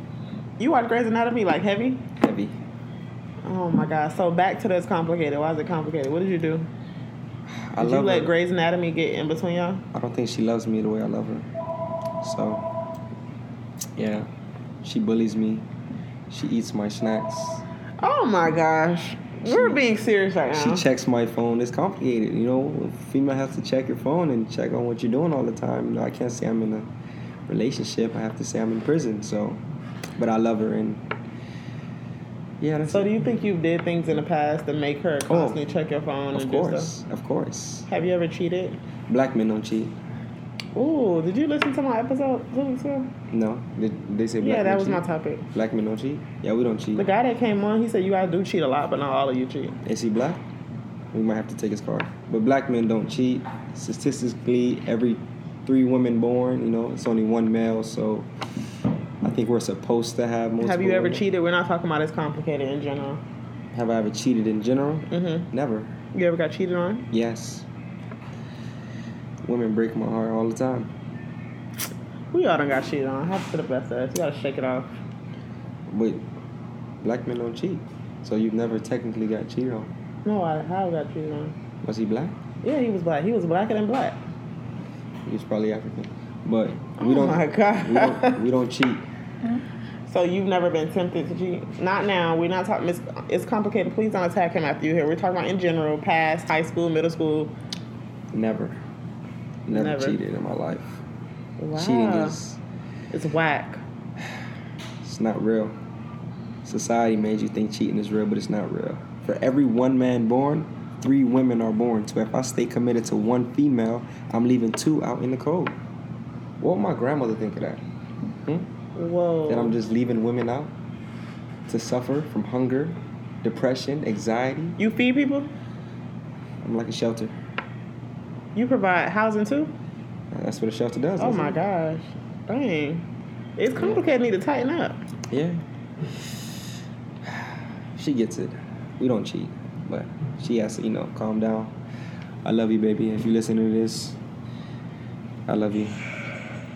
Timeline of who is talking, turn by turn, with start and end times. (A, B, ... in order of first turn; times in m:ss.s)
0:00.6-0:02.1 A
0:02.2-0:02.6 B
0:03.4-0:06.7 A
0:07.5-0:08.3 B
0:07.8-0:09.8 A
0:09.9-0:11.5 B
0:12.2-0:12.7 B
0:14.0-0:14.3 B
0:14.8-0:15.7 B
0:16.3-0:17.6 B
0:18.0-0:20.8 A
0:19.4-0:19.8 B
0:20.5-0:26.9 B
0:27.5-0:29.6 B
0:30.2-0:31.1 B
0:32.6-0:33.2 B
0:32.9-0:36.9 A
0:35.3-0:35.7 B
0:36.3-0:37.9 B
0:37.9-0:38.8 A
0:39.1-0:40.0 B
0:40.7-0:43.1 A
0:43.3-0:47.1 B
0:44.4-0:45.4 A
0:47.0-0:49.8 A
0:49.8-0:50.4 B
0:51.1-0:58.3 B
0:59.2-1:01.2 B
1:00.6-1:03.2 A
1:03.7-1:05.9 B
1:05.1-1:05.5 A
1:06.1-1:07.1 A
1:07.1-1:07.7 B
1:09.4-1:10.9 B
1:12.3-1:15.0 A
1:15.9-1:16.3 B
1:17.0-1:19.9 B
1:20.2-1:21.6 A
1:21.8-1:22.4 B
1:22.6-1:24.2 A
1:25.2-1:29.1 B
1:27.0-1:28.4 A
1:30.1-1:37.5 A
1:38.3-1:38.8 B
1:39.7-1:41.0 B
1:39.7-1:40.2 A
1:41.6-1:42.4 A
1:41.8-1:42.6 B
1:43.1-1:43.8 A
1:45.0-1:45.8 B
1:46.6-1:55.8 B
1:56.6-1:57.8 B
1:58.4-1:58.7 B
1:59.0-1:59.8 A
1:59.5-2:00.7 B
2:01.7-2:04.8 B
2:04.8-2:05.5 A
2:06.6-2:07.4 B
2:08.6-2:09.7 A
2:10.3-2:11.6 B
2:11.2-2:15.0 A
2:13.8-2:14.0 B
2:15.3-2:15.6 B
2:17.2-2:21.8 B
2:22.4-2:24.2 B
2:25.5-2:26.0 B